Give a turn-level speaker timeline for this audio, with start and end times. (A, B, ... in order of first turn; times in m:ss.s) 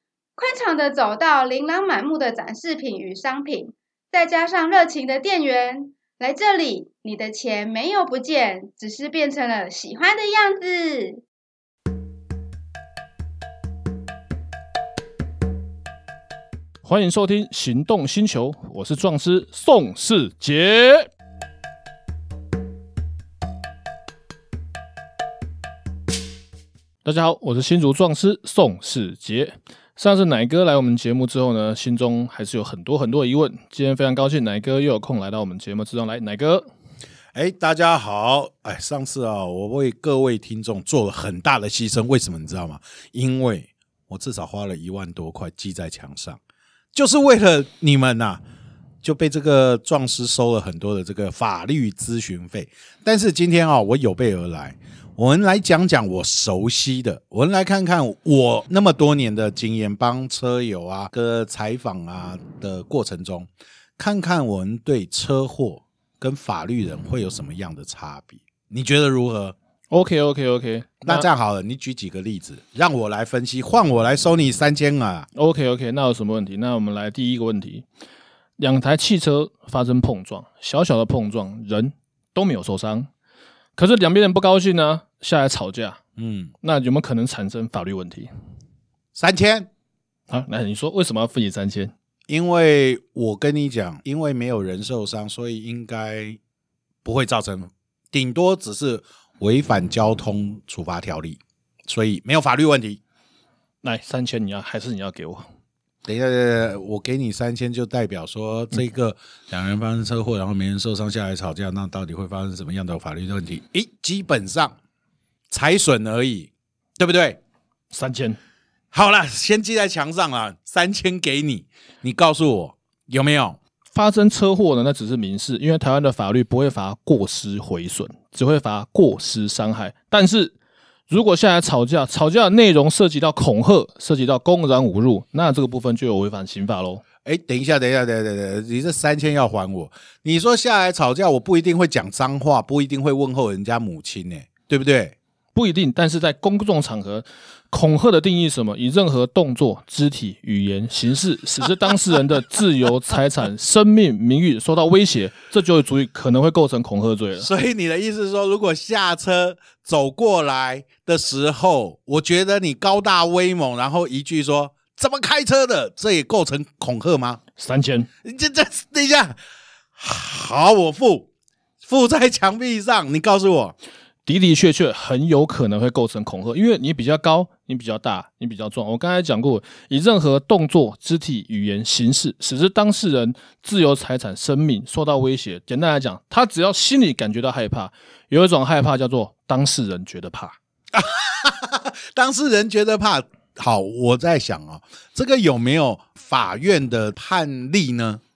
0:00.4-0:11.2 A
0:16.8-0:21.1 B
0:27.0-0:36.7 B
0:37.3-0:46.4 C
0:46.9-0:48.4 C
0:49.0-1:09.6 C
1:09.9-1:11.3 B
1:11.0-1:15.3 C
1:15.4-1:17.9 B
1:18.6-1:23.1 B
1:23.8-1:26.0 B
1:26.2-1:26.5 C
1:26.6-1:28.3 B
1:29.2-1:29.7 C
1:30.3-1:31.9 B
1:32.3-1:36.4 C
1:37.0-1:43.0 C
1:43.8-1:45.5 B
1:46.0-1:54.8 C
1:55.5-1:57.4 C
1:57.9-1:58.4 B
1:58.9-2:03.6 C
2:03.9-2:10.6 B
2:11.1-2:17.0 B
2:17.2-2:25.2 C
2:25.5-2:37.5 B
2:37.4-2:47.4 C
2:47.6-2:48.1 B
2:48.2-2:49.4 C
2:50.0-2:51.3 C
2:51.8-2:53.8 C
2:54.2-3:10.6 B
3:10.9-3:18.2 C